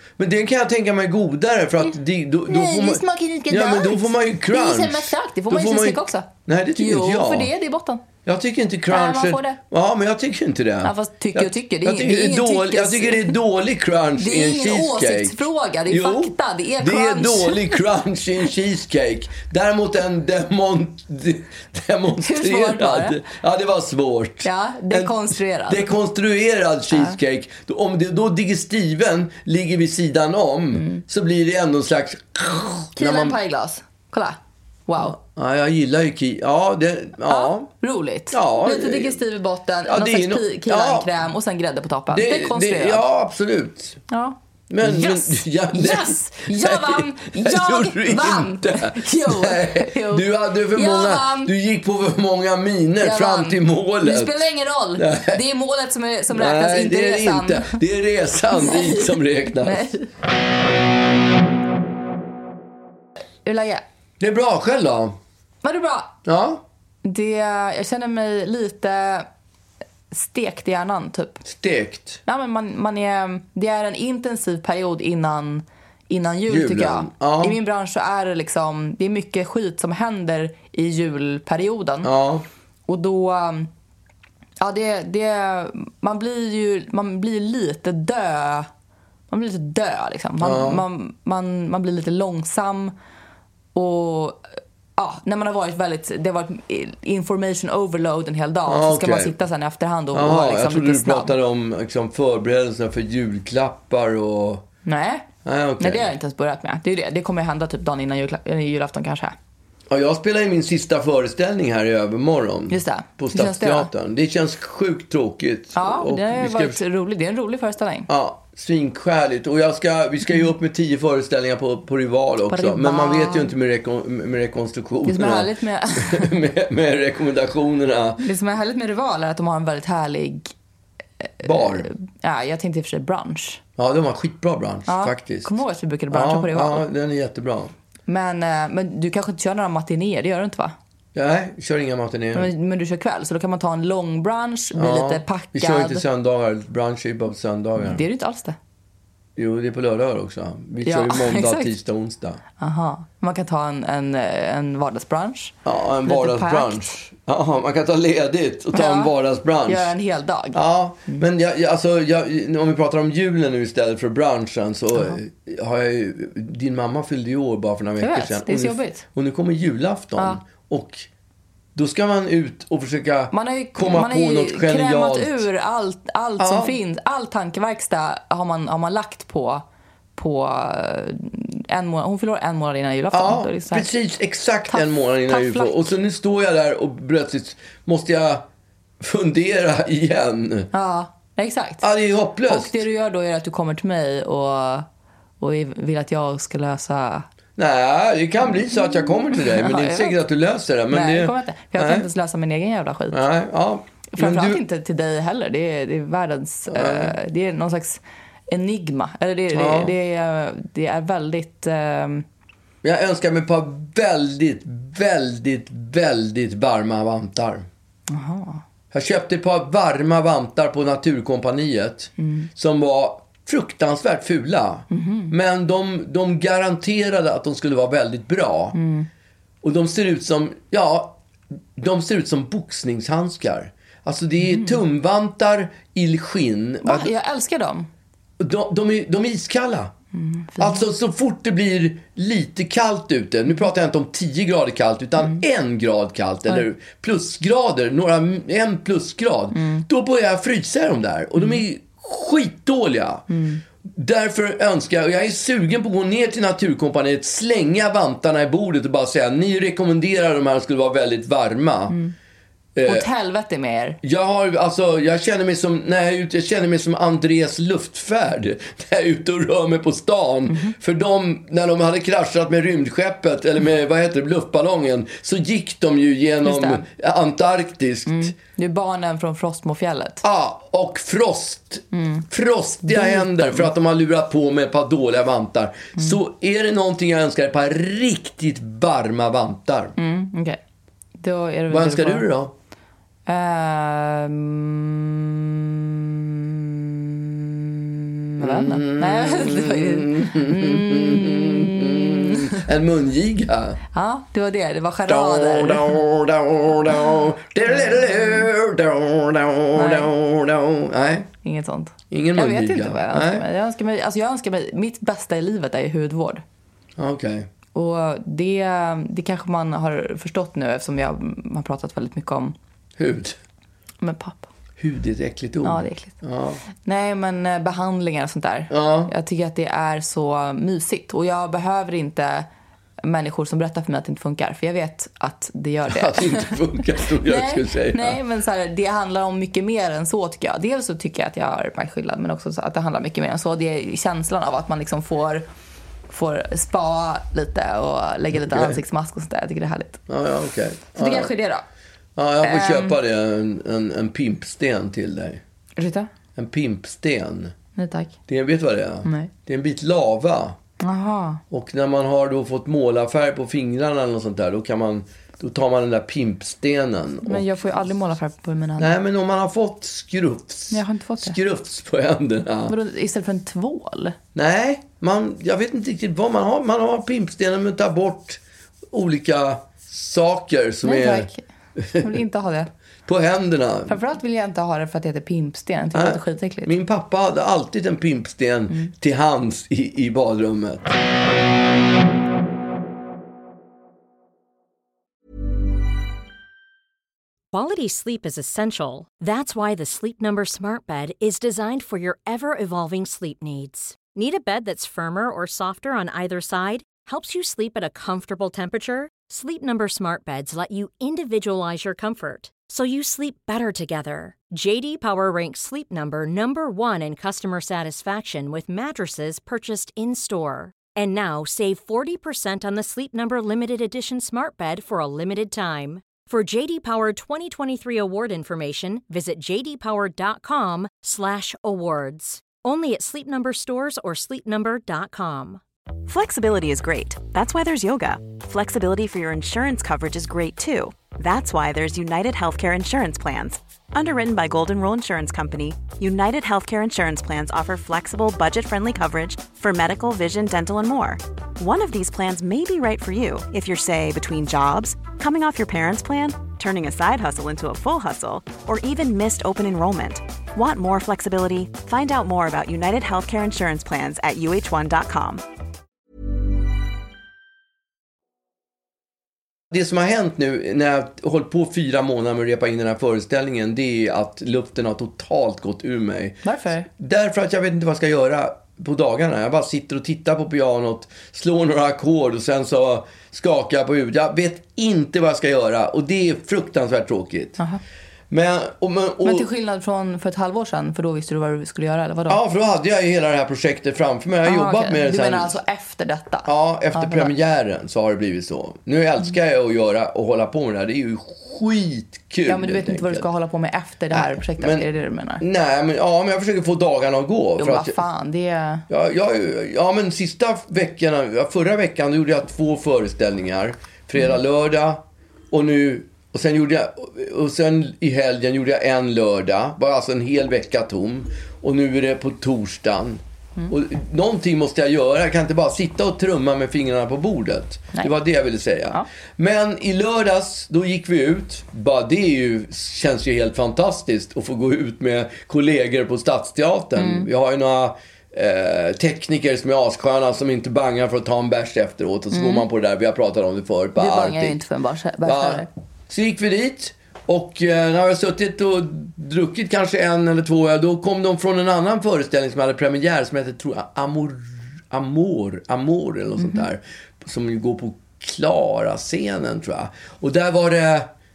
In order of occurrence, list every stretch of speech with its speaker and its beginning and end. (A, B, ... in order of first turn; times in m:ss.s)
0:00.2-0:07.5 A
0:02.5-0:08.0 B
0:08.2-0:33.4 A
0:08.9-0:09.6 B
0:10.8-0:13.4 B
0:14.2-0:17.8 B
0:22.2-0:23.2 B
0:24.4-0:25.9 B
0:33.0-0:35.2 B
0:35.0-0:37.7 A
0:37.3-0:43.0 B
0:38.3-0:39.2 A
0:39.9-0:41.1 A
0:42.1-0:44.0 A
0:44.1-0:51.5 B
0:44.7-0:54.4 A
0:53.0-0:57.8 B
0:55.0-0:55.4 A
0:56.3-0:59.9 A
0:58.5-1:00.1 B
1:03.4-1:03.8 B
1:04.2-1:05.2 A
1:05.6-1:06.1 B
1:06.2-1:06.6 A
1:07.0-1:09.3 B
1:10.1-1:11.4 B
1:11.4-1:12.2 A
1:12.2-1:22.1 B
1:16.5-1:17.6 A
1:22.0-1:22.5 A
1:22.9-1:23.7 B
1:24.6-1:28.7 B
1:29.3-1:32.9 B
1:30.4-1:30.8 A
1:33.8-1:34.4 B
1:35.0-1:41.3 B
1:38.7-1:39.3 A
1:40.1-1:44.6 A
1:44.9-1:45.3 B
1:45.4-1:46.1 A
1:45.8-1:49.4 B
1:49.9-1:56.8 A
1:52.7-1:53.9 B
1:55.8-1:58.1 B
1:58.1-2:08.2 A
2:02.5-2:03.5 B
2:05.1-2:06.3 B
2:08.2-2:10.5 B
2:11.2-2:13.6 B
2:11.4-2:11.9 A
2:13.8-2:15.5 A
2:14.9-2:16.9 B
2:16.1-2:17.7 A
2:18.1-2:20.8 B
2:21.1-2:22.5 A
2:22.3-2:26.0 B
2:24.8-2:28.1 A
2:27.8-2:28.6 B
2:29.4-2:32.4 A
2:30.8-2:31.7 B
2:32.6-2:35.6 B
2:35.6-2:39.9 A
2:36.1-2:37.0 B
2:38.7-2:39.1 B
2:39.6-2:41.2 B
2:40.5-2:51.1 A
2:48.0-2:49.0 B
2:51.8-2:55.4 A
2:53.3-2:59.6 B
2:56.4-2:56.8 A
3:00.2-3:03.9 B
3:03.1-3:08.4 A
3:04.7-3:06.0 B
3:09.0-3:10.7 A
3:10.7-3:11.8 B
3:11.8-3:12.8 A
3:12.5-3:14.9 B
3:15.4-3:17.2 B
3:17.6-3:22.1 A
3:18.8-3:20.2 B
3:20.9-3:23.2 B
3:23.1-3:24.6 A
3:24.1-3:32.2 B
3:26.7-3:27.1 A
3:29.5-3:29.9 A
3:32.8-3:37.7 A
3:38.1-3:38.6 B
3:38.9-3:48.8 A
3:42.2-3:42.5 B
3:44.9-3:45.3 B
3:48.7-3:49.1 B
3:49.6-3:51.2 A
3:51.8-3:57.1 A
3:54.4-3:54.8 B
3:56.8-3:57.9 B
3:58.4-3:59.9 A
4:00.1-4:00.8 B
4:00.6-4:13.3 A
4:09.5-4:09.8 B
4:13.3-4:13.6 B
4:13.9-4:22.0 A
4:22.8-4:23.1 A
4:22.8-4:24.0 B
4:24.0-4:38.3 A
4:30.5-4:30.8 B
4:36.4-4:36.8 B
4:38.1-4:40.2 B
4:40.2-4:50.0 A
4:41.9-4:42.2 B
4:42.8-4:43.7 B
4:50.0-4:50.6 B
4:51.2-4:52.3 B
4:51.7-4:52.5 A
4:53.2-5:02.6 B
4:58.4-5:03.8 A
5:03.9-5:06.0 B
5:05.1-5:11.3 A
5:07.7-5:08.5 B
5:09.8-5:10.1 B
5:11.4-5:16.4 B
5:12.1-5:13.4 A
5:17.0-5:17.5 A
5:17.7-5:22.6 B
5:23.0-5:23.4 A
5:24.0-5:24.5 B
5:24.8-5:26.6 A
5:25.6-5:26.2 B
5:26.8-5:32.5 B
5:28.7-5:29.1 A
5:33.0-5:36.6 B
5:35.9-5:38.2 A
5:37.1-5:45.5 B
5:46.1-5:50.0 B
5:48.4-5:48.8 A
5:50.1-5:51.3 A
5:51.0-5:51.6 B
5:52.2-5:55.4 A
5:52.4-5:53.0 B
5:55.8-5:56.1 B
5:56.4-5:57.5 A
5:57.8-5:58.2 B
5:58.3-6:00.6 A
5:59.0-5:59.3 B
6:00.8-6:01.4 B
6:01.5-6:07.4 A
6:07.2-6:08.9 B
6:08.8-6:12.8 A
6:10.7-6:11.4 B
6:12.7-6:14.2 B
6:14.4-6:22.2 A
6:20.8-6:21.4 B
6:22.0-6:22.7 B
6:23.1-6:24.0 A
6:23.9-6:26.7 B
6:25.9-6:31.0 A
6:37.5-7:15.6 C
7:16.1-7:45.4 D
7:49.7-8:07.6 A
7:56.4-7:56.9 B
8:08.3-8:09.5 A
8:09.2-8:12.4 B
8:12.3-8:15.6 A
8:14.4-8:17.3 B
8:16.5-8:23.3 A
8:22.5-8:25.4 B
8:24.1-8:24.9 A
8:25.4-8:28.0 A
8:27.6-8:28.9 B
8:28.9-9:04.6 A
8:57.0-8:57.3 B
9:02.3-9:02.6 B
9:04.0-9:05.7 B
9:05.2-9:21.1 A
9:16.4-9:16.7 B